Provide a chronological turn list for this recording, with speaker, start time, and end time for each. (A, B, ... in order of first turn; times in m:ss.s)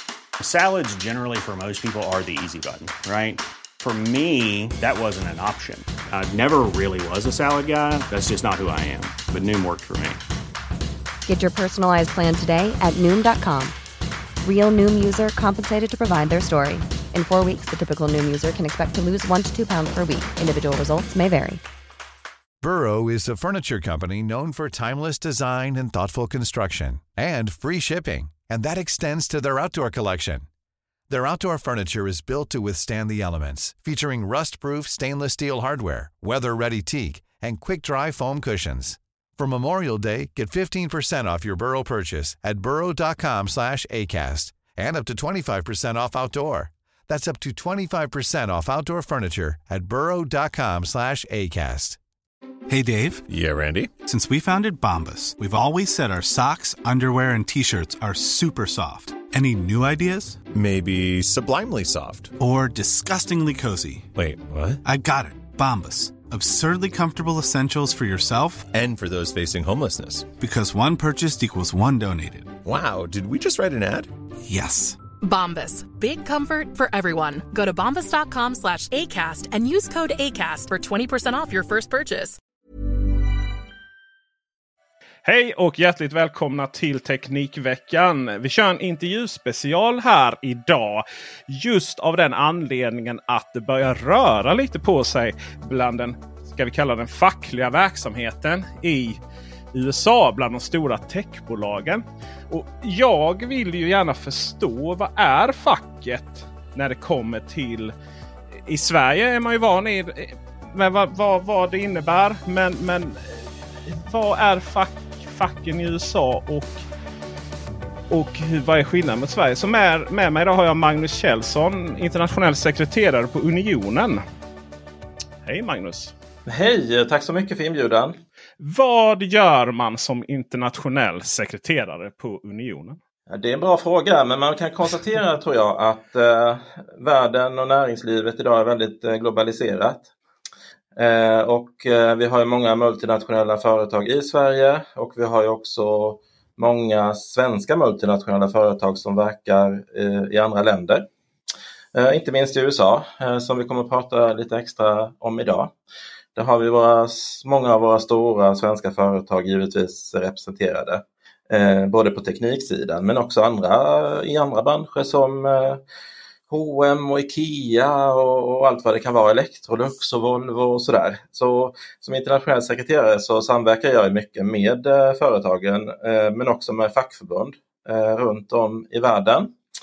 0:00.4-0:10.2 A
0:11.2-0:13.7 B
0:14.4-0:21.6 B
0:22.6-0:30.4 C
0:31.1-0:52.0 C
0:52.7-0:53.2 D
0:53.3-0:53.9 E
0:54.0-1:00.4 D
1:00.5-1:02.3 E
1:02.4-1:04.1 D
1:04.1-1:04.8 E
1:04.8-1:08.7 D
1:08.7-1:10.3 E
1:10.4-1:12.5 D
1:12.6-1:14.1 E
1:14.4-1:15.0 D
1:15.2-1:22.4 F
1:25.2-1:39.2 G
1:39.7-1:47.9 G
1:48.6-1:56.8 G
1:58.1-2:04.2 G
2:05.4-2:06.1 G
2:06.5-2:08.2 H
2:08.6-2:13.0 G
2:13.3-2:20.1 H
2:21.0-2:31.1 H
2:31.9-2:35.7 H
2:36.4-2:45.8 H
2:46.5-2:59.5 H